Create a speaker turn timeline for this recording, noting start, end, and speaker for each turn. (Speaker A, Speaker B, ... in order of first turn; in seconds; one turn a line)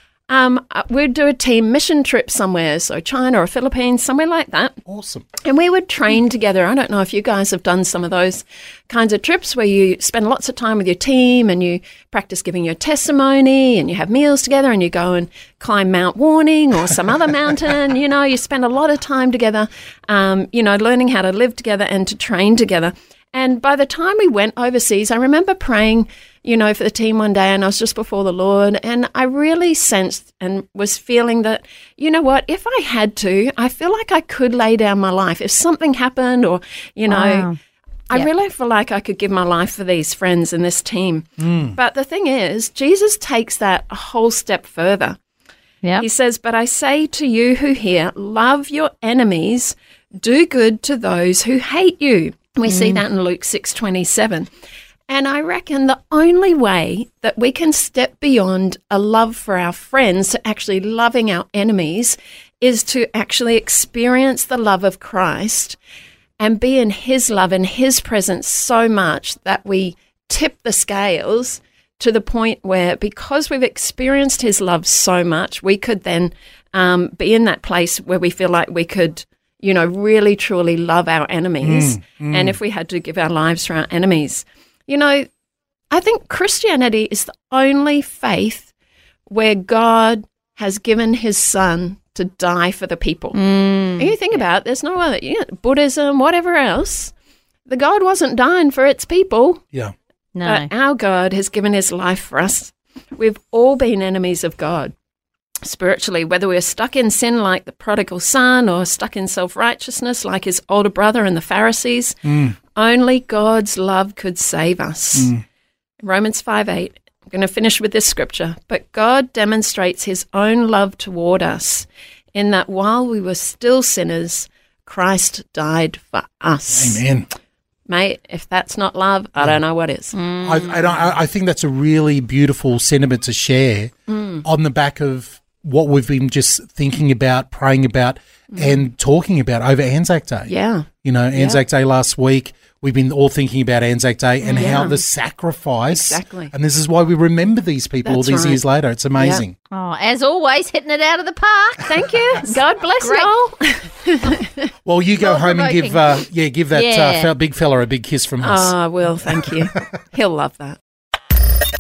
Speaker A: 0.3-4.8
Speaker B: 4.9-5.3
Speaker A: 5.4-37.5
Speaker C: 37.1-37.6
Speaker A: 38.1-45.2
Speaker B: 41.4-41.8
Speaker A: 46.0-54.5
Speaker C: 52.7-53.0
Speaker A: 55.1-65.8
Speaker A: 66.4-85.3
Speaker B: 81.6-82.6
Speaker A: 85.9-88.7
Speaker A: 89.3-93.4
Speaker C: 93.3-94.4
Speaker A: 94.0-97.1
Speaker A: 97.7-99.6
Speaker C: 100.3-100.7
Speaker A: 100.4-104.9
Speaker A: 105.6-115.3
Speaker B: 112.2-112.5
Speaker B: 115.2-115.4
Speaker A: 116.0-127.0
Speaker B: 126.7-127.3
Speaker A: 127.9-130.2
Speaker C: 130.1-131.1
Speaker B: 130.4-140.5
Speaker A: 134.1-134.4
Speaker A: 138.5-138.9
Speaker A: 140.5-141.6
Speaker B: 141.0-149.5
Speaker C: 144.5-144.8
Speaker A: 144.5-145.0
Speaker A: 145.9-146.5
Speaker A: 148.0-148.6
Speaker A: 149.2-149.4
Speaker C: 149.7-151.9
Speaker A: 151.9-154.7
Speaker C: 153.0-153.3
Speaker B: 154.8-159.5
Speaker C: 155.2-156.0
Speaker C: 156.7-157.3
Speaker A: 158.4-160.8